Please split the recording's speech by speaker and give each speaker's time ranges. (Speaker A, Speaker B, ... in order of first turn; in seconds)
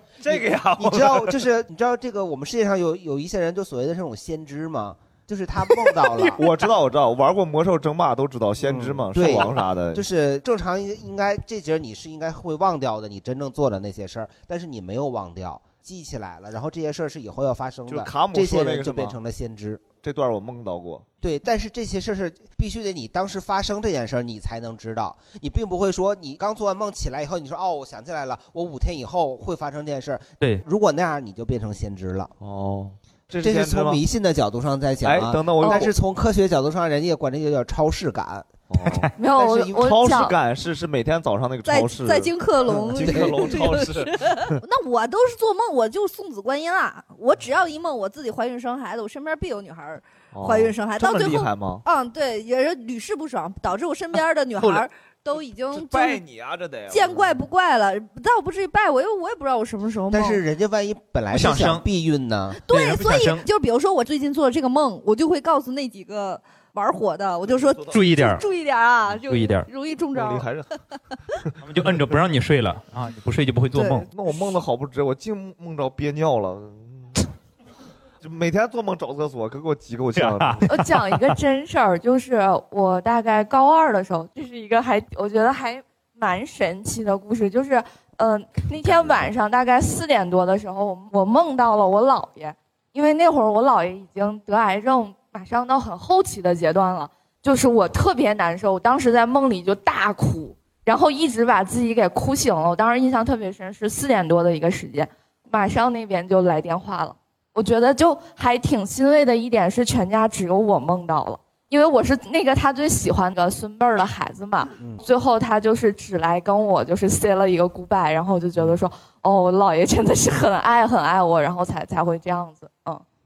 Speaker A: 0.2-1.4, 6.3-10.1, 17.9-19.2, 20.0-21.1, 32.4-34.0, 35.0-35.9, 38.7-39.1, 39.7-44.6, 50.3-51.8, 55.7-57.4, 67.5-68.1, 70.1-70.7, 74.1-77.3, 78.2-80.7, 88.9-89.3
Speaker B: 0.8-6.4, 8.7-19.8, 21.2-32.3, 33.4-38.5, 39.4-39.9, 42.8-43.4, 60.1-62.6
Speaker C: 39.2-40.4, 80.7-123.0
Speaker D: 41.7-56.2, 56.9-60.4, 62.5-70.5, 73.7-74.3
Speaker E: 54.6-54.9, 61.3-61.9, 62.7-63.5, 67.9-68.4, 69.3-69.7, 71.6-74.1, 80.2-80.9